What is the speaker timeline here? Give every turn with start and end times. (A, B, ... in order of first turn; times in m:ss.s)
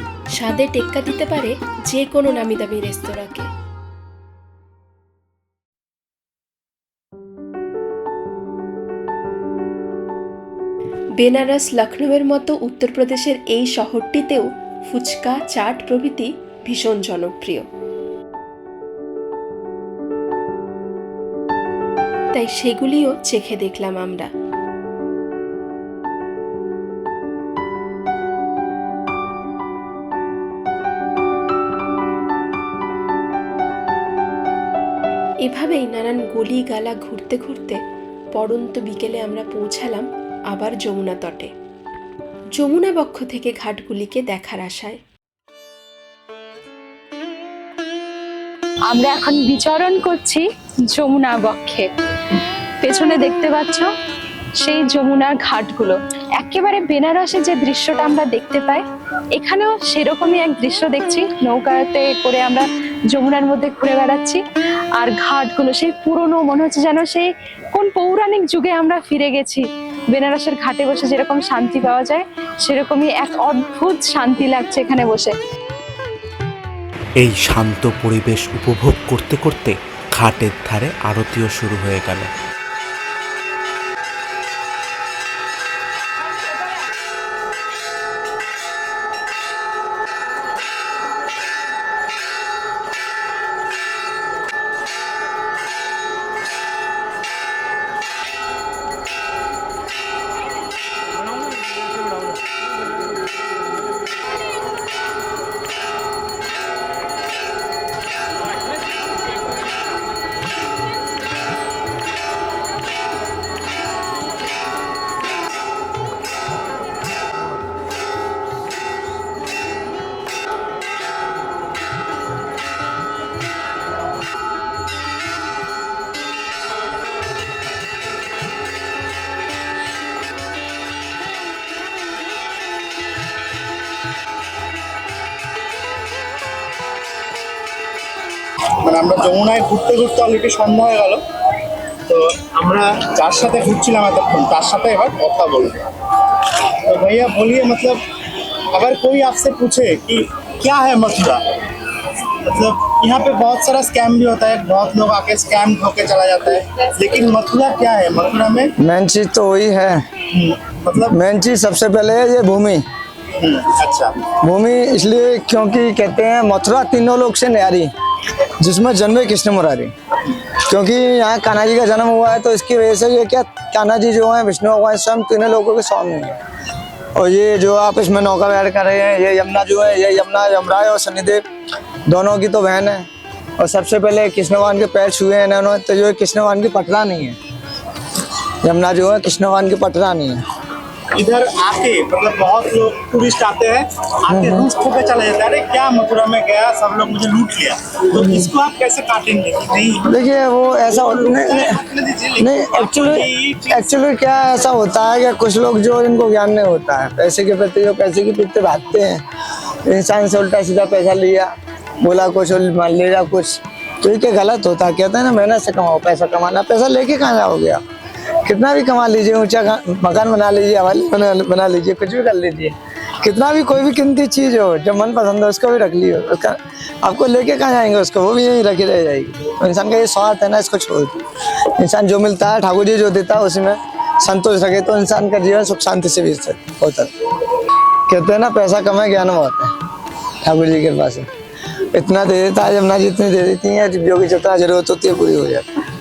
0:00.4-0:03.5 A
0:11.2-0:17.7 A
0:22.3-0:24.3 A
0:35.4-0:37.8 A
0:38.4-0:41.5 A
0:42.6-0:45.0 A
0:48.9-0:53.9 B
0:54.6-0:58.8 B
0:59.4-1:04.4 B
1:05.0-1:15.3 B
1:17.2-1:22.3 C
2:18.8-2:21.2 D
2:22.1-2:25.8 D
2:26.4-2:28.0 D
2:28.7-2:31.4 D
2:32.4-2:38.7 D
2:38.8-2:40.1 E
2:40.4-2:41.2 D
2:41.1-2:42.8 E
2:43.4-2:44.2 D
2:44.4-2:56.4 E
2:57.2-3:01.4 E
3:02.1-3:03.1 E
3:03.6-3:07.4 E
3:08.2-3:10.4 E
3:11.2-3:20.0 D
3:14.3-3:14.7 E
3:20.1-3:21.8 E
3:20.9-3:23.9 D
3:22.4-3:29.2 E
3:29.8-3:31.5 E
3:32.0-3:37.8 E
3:38.4-3:51.2 E
3:51.8-3:59.7 E
4:00.4-4:01.3 E
4:01.9-4:05.6 E